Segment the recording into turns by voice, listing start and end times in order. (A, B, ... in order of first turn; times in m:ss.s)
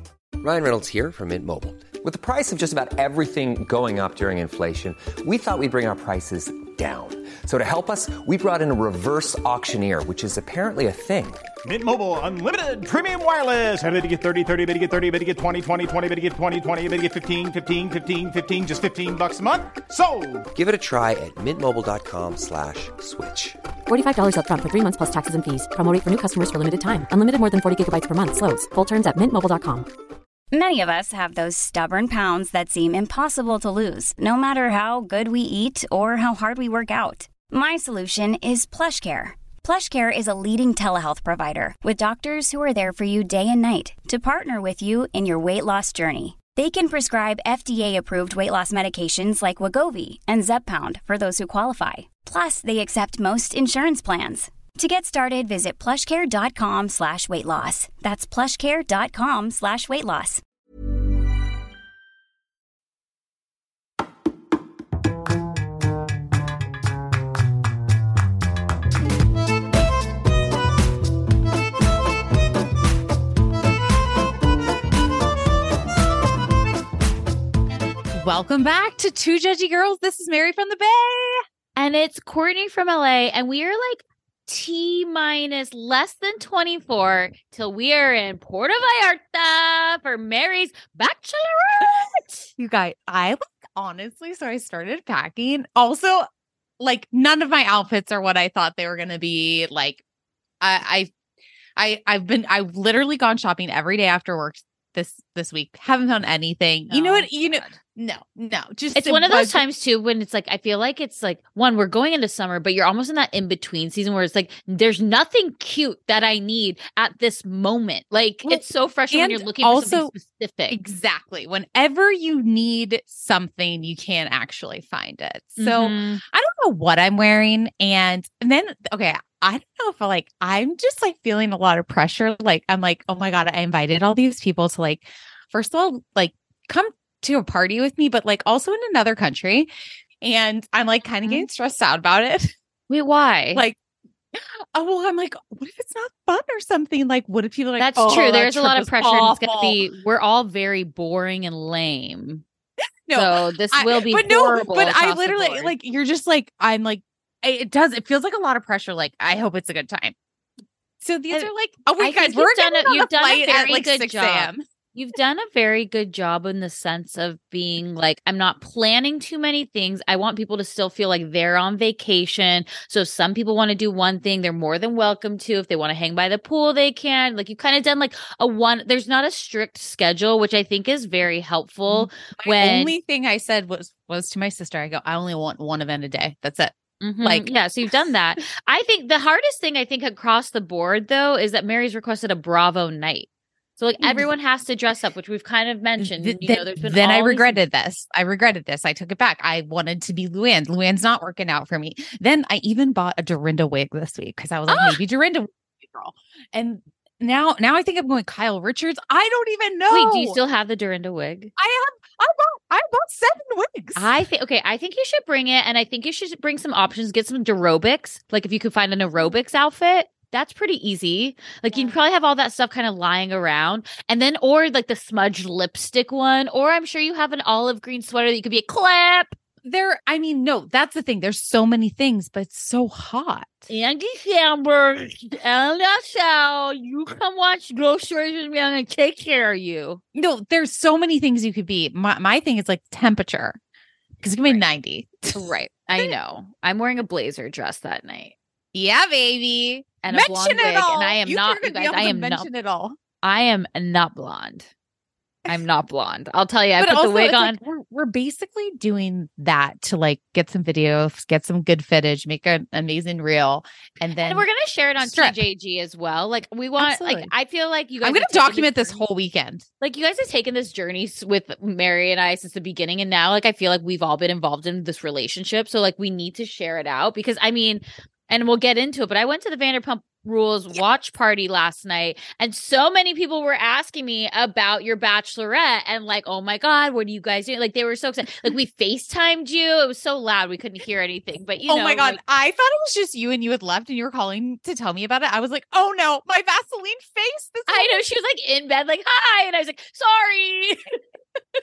0:00.4-0:11.4 A
0:11.6-0:20.4 B
0:20.5-0:23.6 A
0:23.9-0:29.9 C
0:30.5-1:00.4 D
1:18.1-1:21.4 E
1:21.8-1:32.5 F
1:32.6-1:36.3 E
1:36.8-1:40.0 E
1:40.6-1:41.1 E
1:41.8-1:49.6 E
1:46.9-1:47.8 F
1:48.9-2:00.8 F
1:58.4-2:00.1 E
2:00.7-2:19.7 E
2:05.6-2:06.2 F
2:20.2-2:22.5 E
2:22.9-2:23.6 F
2:24.3-2:29.8 E
2:27.8-2:32.4 F
2:33.1-2:40.2 E
2:33.1-2:35.7 F
2:41.0-2:44.6 E
2:41.3-3:02.9 F
3:01.9-3:07.5 E
3:07.0-3:17.6 F
3:14.0-3:14.3 E
3:16.0-3:30.4 E
3:24.7-3:25.0 F
3:29.9-3:31.5 F
3:31.6-3:34.1 E
3:34.0-3:49.4 F
3:49.6-3:53.7 E
3:53.7-4:00.0 F
4:00.1-4:03.6 E
4:04.2-4:06.1 E
4:05.3-4:08.3 F
4:08.7-4:13.0 E
4:10.0-4:12.5 F
4:13.2-4:14.7 F
4:15.5-4:17.6 F
4:16.8-4:25.4 E
4:24.2-4:29.0 F
4:26.8-4:27.3 E
4:28.0-4:29.6 E
4:29.8-4:52.2 F
4:51.7-4:58.0 E
4:57.7-5:00.9 F